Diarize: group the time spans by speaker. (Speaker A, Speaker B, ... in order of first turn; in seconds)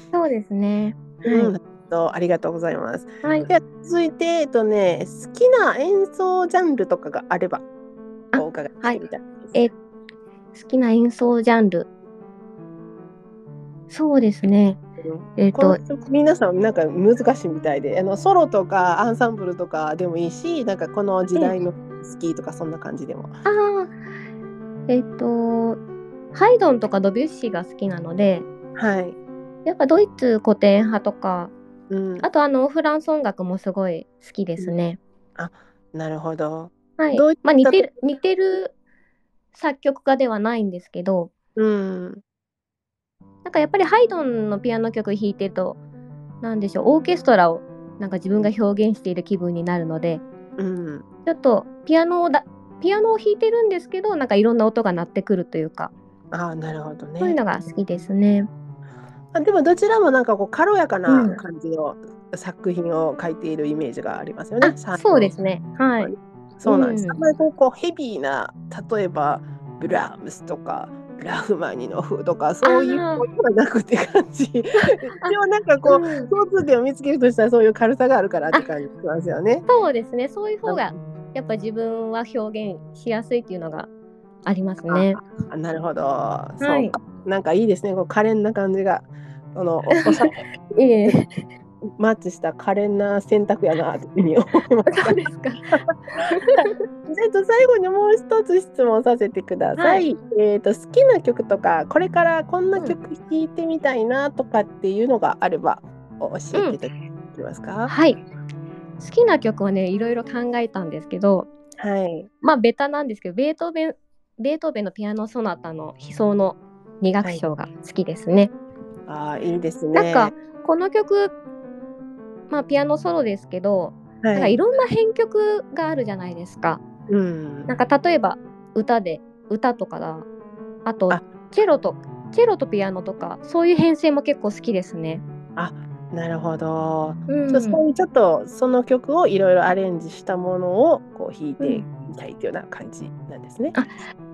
Speaker A: 0.1-1.5, 3.2-3.5, 8.3-9.0, 10.5-11.9, 13.9-14.8, 15.4-15.8, 23.4-23.9, 24.9-25.8, 26.3-28.5, 29.6-31.5, 32.2-35.0, 37.0-38.7, 39.5-41.3, 43.5-45.8, 46.4-50.2, 51.3-55.9, 57.2-58.5, 61.1-61.4, 64.6-66.1, 66.7-67.2, 72.7-73.3, 74.8-75.3, 75.9-76.3, 79.7-83.9, 84.5-85.2, 86.6-87.0, 89.9-91.3, 94.9-96.7, 99.8-100.1, 106.5-106.8, 107.9-108.2, 109.0-111.5, 112.4-118.5, 119.9-121.3, 122.5-126.8, 127.7-130.3, 130.8-135.2, 137.3-137.8, 141.6-141.9, 143.7-144.0
Speaker B: 1.2-7.6, 8.4-9.6, 15.0-23.3, 28.8-29.2, 31.9-32.3, 35.4-37.9, 41.6-42.2, 50.6-51.0, 56.3-57.4, 59.3-65.3, 66.0-79.7, 84.9-90.4, 92.0-95.9, 96.6-108.0, 111.8-112.3, 119.1-120.3, 124.2-124.6, 127.1-127.7, 135.6-143.8